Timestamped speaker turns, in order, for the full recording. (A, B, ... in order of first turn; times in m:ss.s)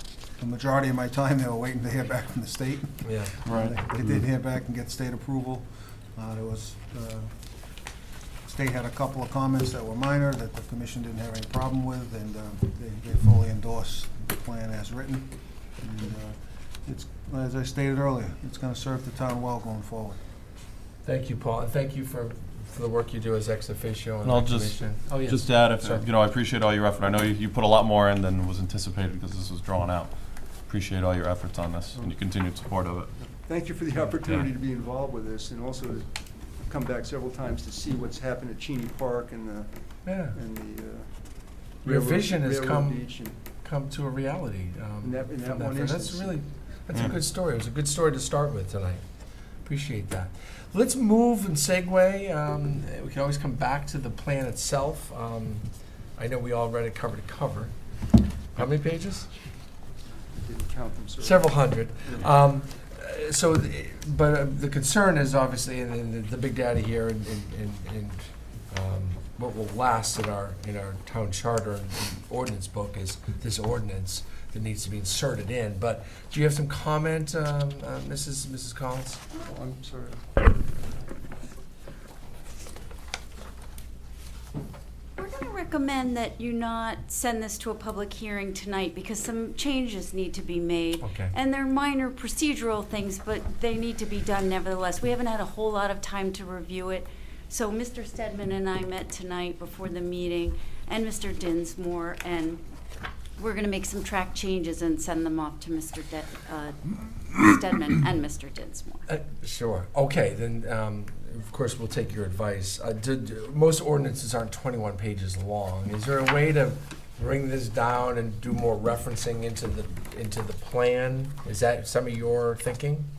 0:00.4-0:07.3 A
0:03.0-0:03.3 B
0:03.4-0:03.8 C
0:08.4-0:20.2 A
0:21.0-0:26.0 B
0:24.2-0:33.1 C
0:33.2-0:41.1 D
0:40.0-0:40.4 B
0:41.8-0:43.4 D
0:41.9-0:43.0 B
0:43.6-0:49.0 B
0:45.0-0:46.4 D
0:49.6-0:57.7 B
0:58.5-0:59.3 B
1:00.3-1:02.3 D
1:01.2-1:19.2 B
1:19.4-1:20.2 D
1:25.2-1:42.6 E
1:31.0-1:31.3 B
1:43.4-1:49.1 E
1:49.1-2:03.1 B